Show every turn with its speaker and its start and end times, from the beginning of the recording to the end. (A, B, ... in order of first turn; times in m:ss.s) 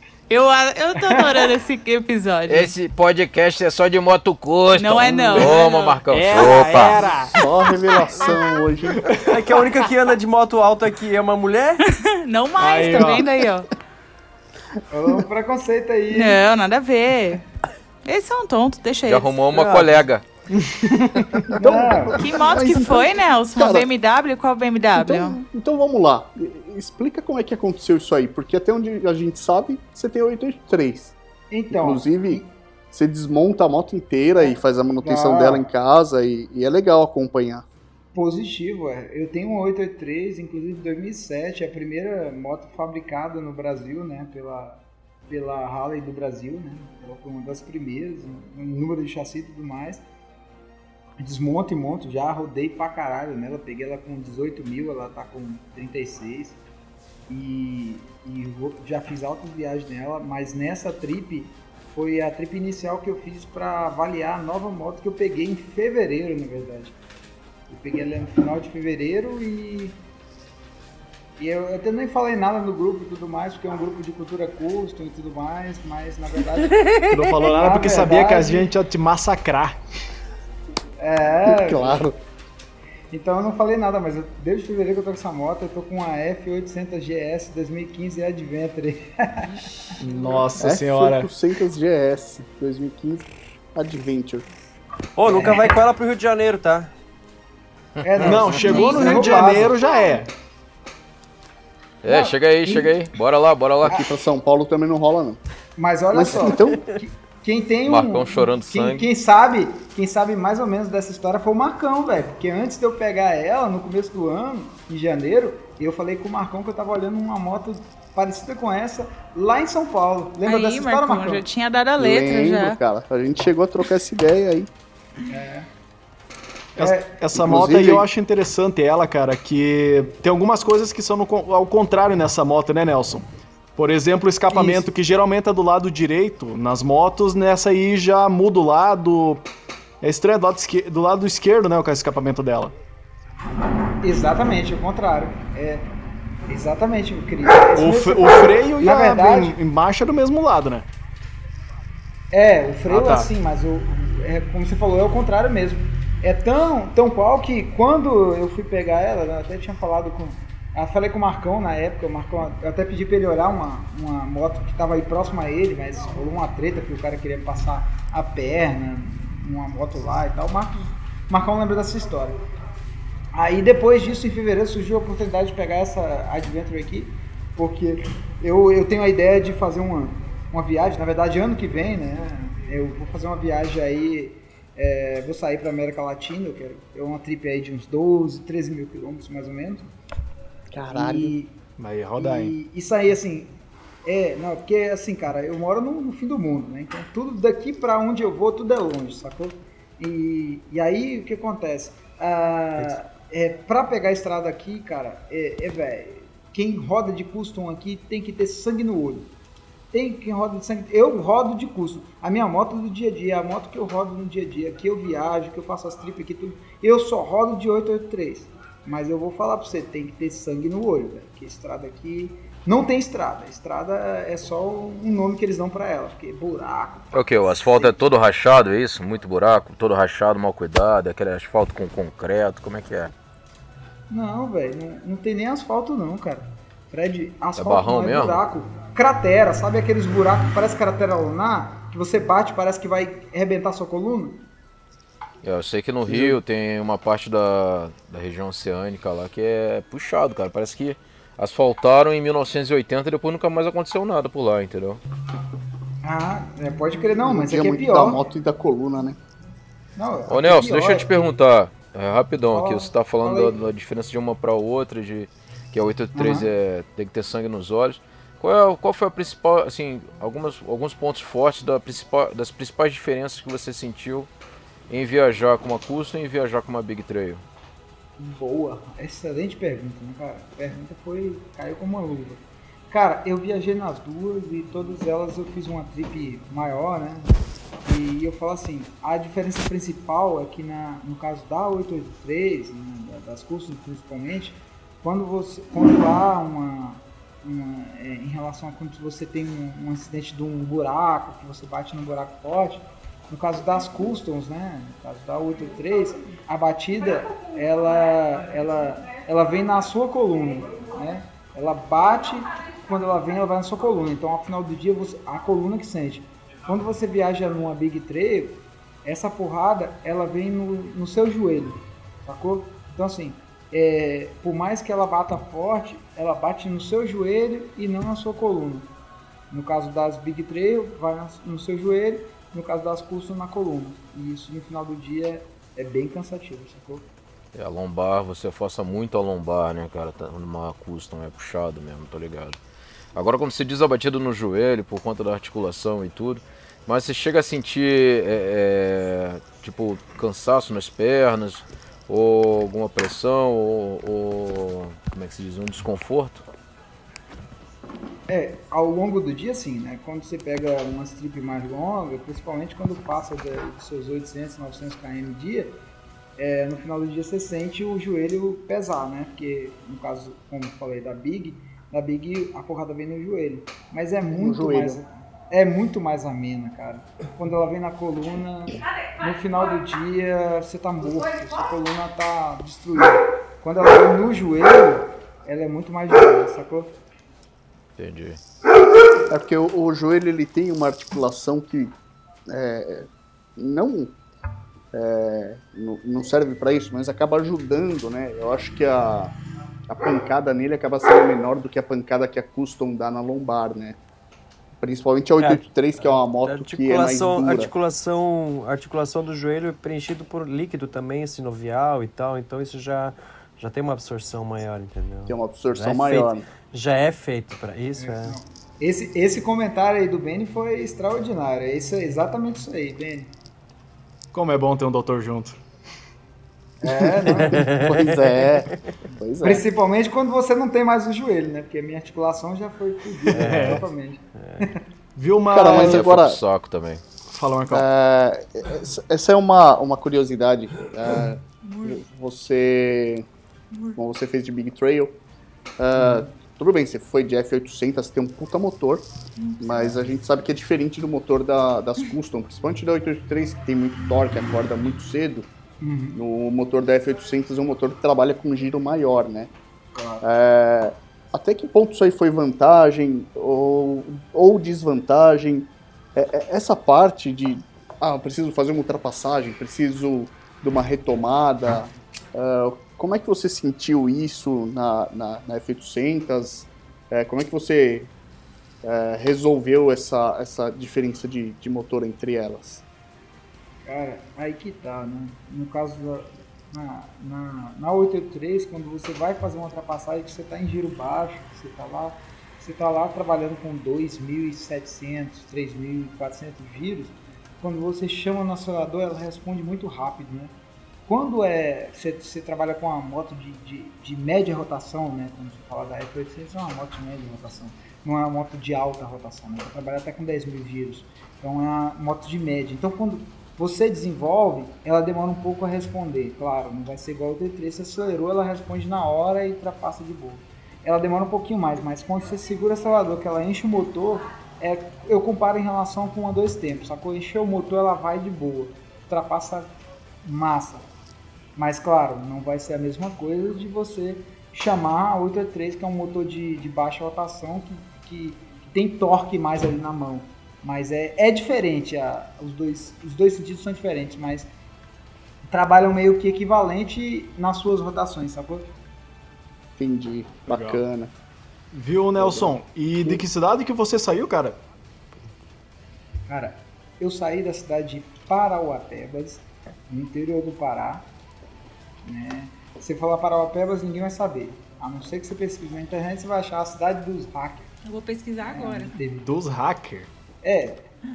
0:00.3-0:02.7 A
0:02.5-0:07.1 B
0:04.8-0:08.6 A
0:06.1-0:07.4 C
0:06.2-0:06.7 D
0:07.3-0:09.1 E
0:09.0-0:09.8 C
0:09.2-0:11.8 D
0:11.8-0:13.7 A
0:12.6-0:13.3 C
0:14.9-0:16.4 F
0:16.1-0:17.4 A
0:18.0-0:20.0 A
0:19.1-0:20.3 B
0:20.6-0:21.5 C
0:21.4-0:22.2 F
0:21.5-0:23.9 E
0:22.2-0:25.4 A
0:25.0-0:31.2 E
0:31.5-0:32.5 F
0:31.7-0:37.7 E
0:34.4-0:35.6 F
0:38.1-0:50.0 F
0:51.2-0:56.6 F
0:57.3-1:07.0 F
1:07.7-1:10.0 F
1:11.4-1:18.7 F
1:16.8-1:17.3 A
1:17.1-1:19.8 C
1:21.0-1:22.1 F
1:21.4-1:22.2 E
1:23.1-1:30.5 F
1:30.0-1:31.3 C
1:30.6-1:34.5 E
1:35.2-1:36.9 D
1:35.3-1:35.7 F
1:38.0-1:39.8 F
1:38.1-1:38.8 B
1:38.2-1:40.3 C
1:38.9-1:40.1 A
1:42.0-1:44.1 B
1:42.1-1:43.0 F
1:43.9-1:45.4 E
1:45.8-2:01.4 F
1:46.1-1:46.8 E
1:47.9-1:49.0 B
2:00.4-2:02.8 A
2:02.0-2:04.7 E
2:05.3-2:05.7 F
2:06.8-2:19.4 C
2:06.8-2:07.2 F
2:07.3-2:08.1 E
2:14.5-2:14.9 F
2:20.0-2:22.7 C
2:24.0-2:25.9 F
2:26.5-2:29.6 F
2:27.8-2:30.9 C
2:32.3-2:52.4 F
2:32.9-2:33.3 C
2:53.3-3:09.9 F
3:10.7-3:11.4 E
3:10.9-3:11.6 F
3:11.8-3:12.6 C
3:12.2-3:29.3 F
3:29.9-3:48.0 F
3:47.1-3:53.1 B
3:54.1-4:04.4 F
3:57.6-3:58.4 B
4:05.4-4:15.0 B
4:06.1-4:06.4 F
4:16.0-4:18.2 F
4:17.2-4:19.2 E
4:20.0-4:21.3 F
4:20.3-4:34.3 B
4:22.5-4:23.6 F
4:26.2-4:26.5 F
4:34.9-4:37.4 B
4:38.2-5:28.9 F
5:29.5-5:37.1 F
5:37.5-5:42.6 B
5:43.1-5:56.5 B
5:58.3-6:05.8 F
6:06.4-6:26.9 F
6:14.3-6:15.0 E
6:28.0-6:28.4 B
6:29.3-6:32.0 E
6:32.5-6:34.1 E
6:34.9-6:39.4 E
6:39.9-6:44.0 E
6:44.8-6:47.7 E
6:45.4-6:58.4 D
6:55.3-6:56.5 E
6:58.0-7:03.3 F
7:04.3-7:05.6 C
7:06.8-7:07.7 F
7:06.9-7:09.7 E
7:07.4-7:08.8 D
7:09.4-7:14.8 F
7:13.3-7:13.9 C
7:13.3-7:13.8 D
7:14.4-7:14.6 D
7:15.2-7:16.2 C
7:15.5-7:16.4 E
7:15.6-7:17.0 B
7:17.3-7:17.9 C
7:17.7-7:23.3 E
7:24.0-7:25.2 E
7:25.8-7:29.0 E
7:26.0-7:26.3 F
7:29.4-7:29.8 A
7:29.6-7:35.5 E
7:35.8-7:36.2 F
7:36.1-7:39.5 E
7:40.0-7:40.2 F
7:40.2-7:58.1 E
7:58.8-8:02.8 E
8:03.9-8:20.5 F
8:21.1-8:50.9 F
8:51.6-9:04.5 F
9:05.5-9:08.7 F
9:09.8-9:11.1 E
9:10.5-9:10.8 C
9:11.7-9:14.6 C
9:12.2-9:13.2 E
9:16.3-9:21.1 F
9:22.0-9:27.7 F
9:27.8-9:29.0 A
9:28.4-9:29.3 F
9:29.2-9:30.1 C
9:30.4-9:30.9 F